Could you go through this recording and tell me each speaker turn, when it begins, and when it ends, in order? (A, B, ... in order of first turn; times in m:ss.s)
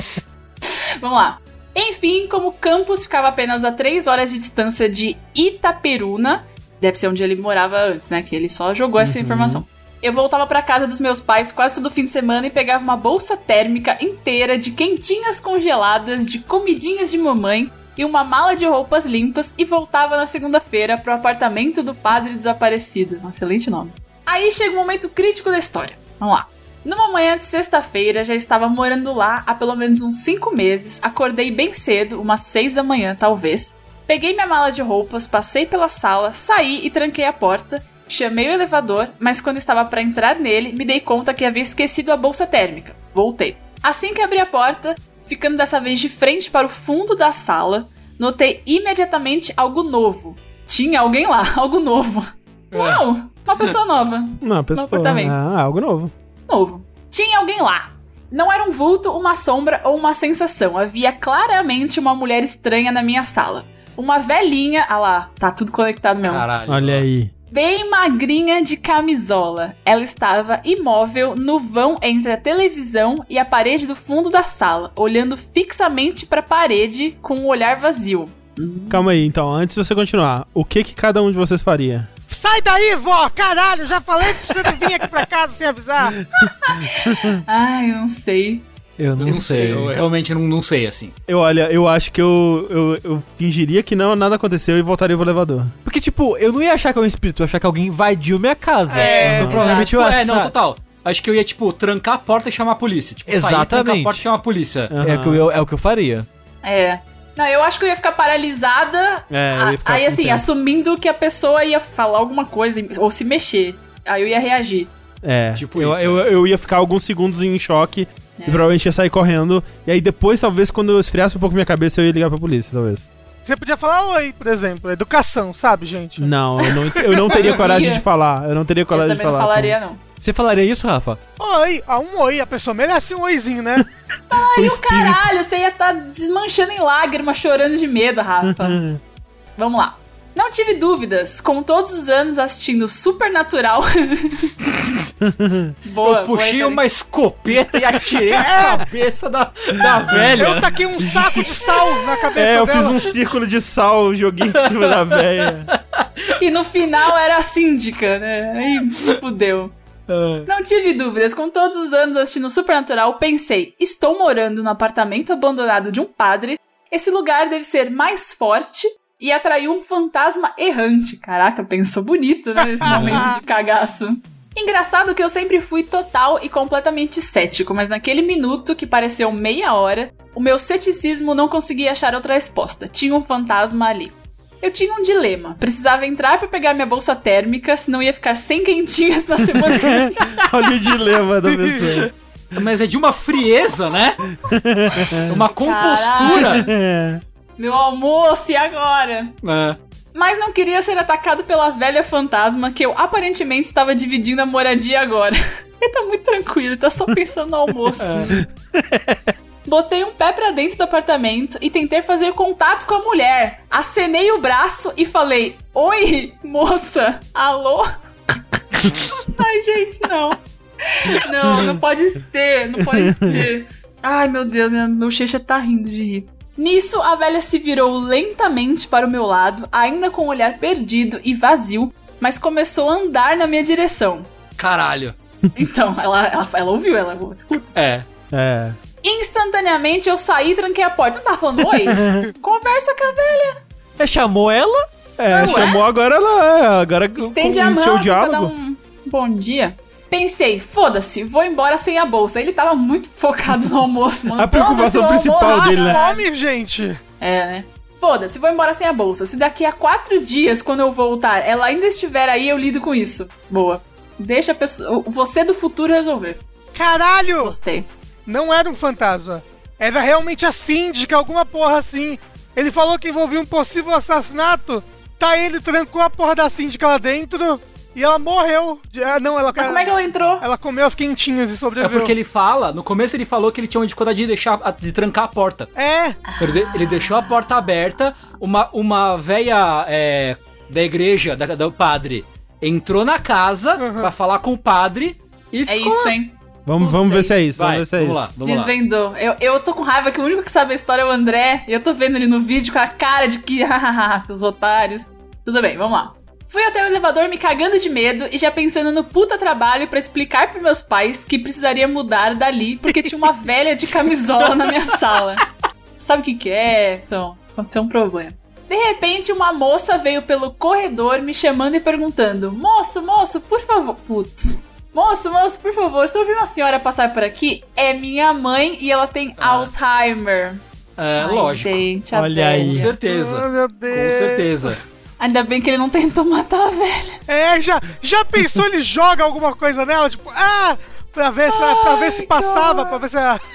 0:00.6-0:55.4 A
0:09.0-0:09.6 B
0:52.7-0:53.0 C
0:54.4-0:56.1 B
0:56.5-1:06.4 A
1:06.2-1:07.0 C
1:06.7-1:07.3 B
1:07.5-1:19.1 A
1:18.9-1:22.1 B
1:22.3-1:26.2 D
1:26.4-1:28.6 A
1:27.1-1:27.4 B
1:29.0-1:30.0 E
1:29.2-1:31.1 C
1:31.3-1:35.7 B
1:35.8-1:40.5 E
1:38.9-1:39.9 A
1:38.9-1:39.5 D
1:39.0-1:44.9 C
1:39.3-1:39.6 B
1:43.3-1:44.2 E
1:44.9-1:45.5 B
1:45.0-1:46.3 E
1:46.6-1:54.9 A
1:49.3-1:50.4 B
1:55.2-2:03.1 B
1:55.6-1:56.3 C
1:58.4-1:58.7 A
2:03.4-2:06.3 D
2:06.2-2:09.8 B
2:07.0-2:07.7 D
2:07.3-2:08.1 A
2:08.9-2:10.0 A
2:10.2-2:11.2 E
2:11.4-2:13.9 D
2:14.3-2:18.8 A
2:14.3-2:15.2 B
2:18.4-2:19.0 B
2:19.6-2:24.5 A
2:24.8-2:25.1 C
2:25.2-2:25.7 B
2:25.8-2:26.8 A
2:26.0-2:30.8 C
2:28.3-2:28.8 D
2:30.2-2:33.0 D
2:31.0-2:31.4 B
2:32.4-2:35.7 B
2:35.7-2:36.3 C
2:36.4-2:39.7 A
2:40.1-2:40.5 C
2:40.4-3:10.4 A
2:52.8-2:53.3 C
2:52.9-2:53.3 D
3:09.5-3:12.1 B
3:12.5-3:14.2 C
3:14.4-3:15.4 B
3:15.1-3:16.7 C
3:15.5-3:16.7 A
3:16.3-3:17.2 B
3:17.6-3:19.4 A
3:19.4-3:19.8 C
3:20.1-3:28.5 A
3:28.0-3:28.3 C
3:28.1-3:29.3 B
3:29.7-3:54.3 A
3:43.0-3:43.4 B
3:54.6-3:55.2 C
3:55.6-3:57.7 A
3:57.7-3:58.1 C
3:58.3-3:58.8 B
3:59.0-4:03.6 A
4:01.9-4:02.3 B
4:04.0-4:04.9 E
4:05.2-4:08.5 B
4:05.3-4:05.8 A
4:07.2-4:16.2 A
4:14.4-4:16.1 B
4:15.4-4:17.0 D
4:17.2-4:26.4 A
4:26.7-4:27.6 D
4:27.4-4:27.9 A
4:28.3-4:42.1 D
4:39.6-4:40.4 A
4:41.8-4:45.7 C
4:45.8-4:46.2 D
4:46.3-4:47.4 A
4:46.4-4:56.2 C
4:53.8-4:54.1 D
4:55.7-4:57.5 A
4:56.7-4:58.2 B
4:57.6-4:58.7 C
4:58.4-5:15.5 A
5:16.0-5:30.6 A
5:29.4-5:29.7 C
5:31.0-5:31.8 C
5:31.2-5:32.9 A
5:32.1-5:33.0 B
5:32.5-5:34.8 C
5:33.0-5:34.8 D
5:35.2-5:37.2 A
5:37.3-5:43.4 D
5:41.5-5:43.0 A